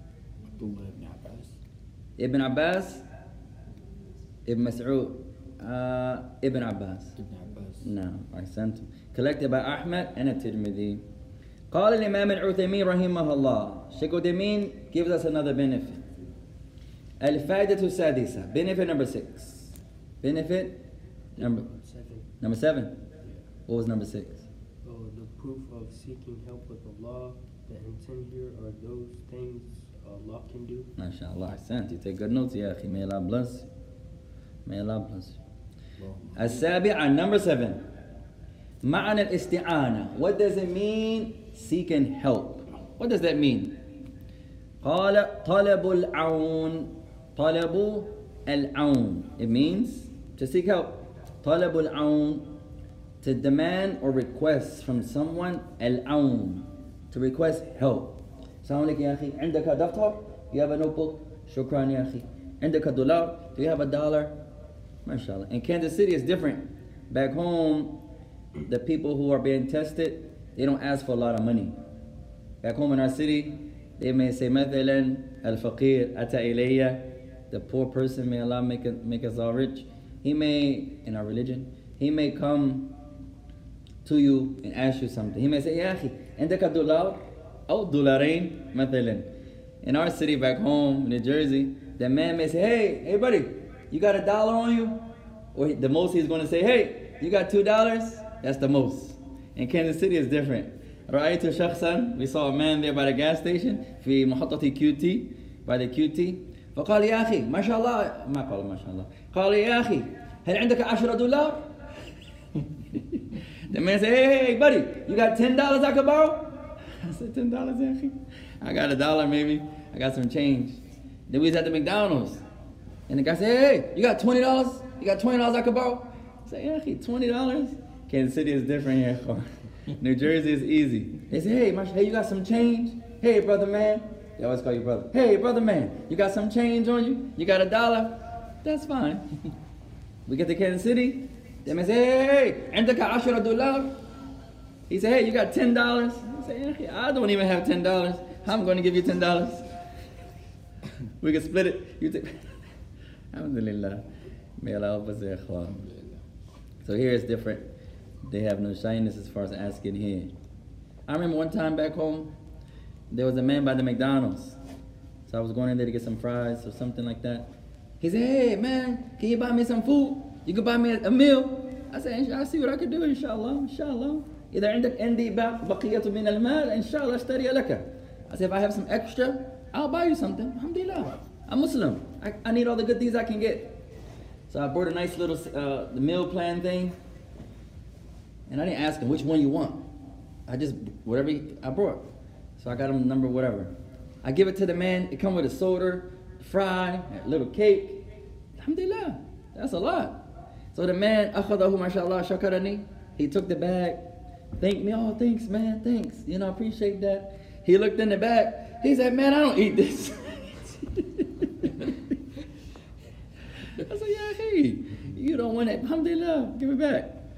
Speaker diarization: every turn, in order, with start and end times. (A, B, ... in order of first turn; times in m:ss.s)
0:00.5-0:01.5 A
0:02.2-0:03.0 B
0:04.4-0:07.2 B
0:07.2-0:07.8 A
0:07.8-0:11.0 B
0:11.7-0:16.0 B
0:17.2-0:20.8 B
0:21.4-0:21.7 B
0:21.4-0:22.3 C
0:22.4-0:23.0 B
0:23.7-0:24.4 B
0:24.8-0:30.9 C
0:31.0-0:33.7 B
0:34.6-0:35.4 B
0:36.0-0:36.4 A
0:36.4-0:37.8 B
0:38.8-0:43.8 B
0:44.8-0:52.5 B
0:53.2-1:04.4 B
1:05.0-1:08.0 B
1:08.7-1:11.8 B
1:12.6-1:22.9 B
1:24.0-1:29.3 B
1:29.8-1:51.7 B
1:53.7-2:02.4 B
2:03.1-2:19.3 B
2:20.2-2:23.9 B
2:24.9-2:29.7 B
2:31.2-2:32.5 B
2:33.3-2:34.1 B
2:34.6-2:35.8 B
2:35.8-2:36.2 A
2:36.8-2:37.7 B
2:38.2-2:40.3 B
2:41.1-2:42.3 B
2:43.1-2:44.6 B
2:45.3-2:47.5 B
2:48.0-3:03.8 B
3:04.5-3:07.0 B
3:08.5-3:09.8 B
3:10.5-3:18.0 B
3:18.6-3:31.7 B
3:33.8-3:37.2 B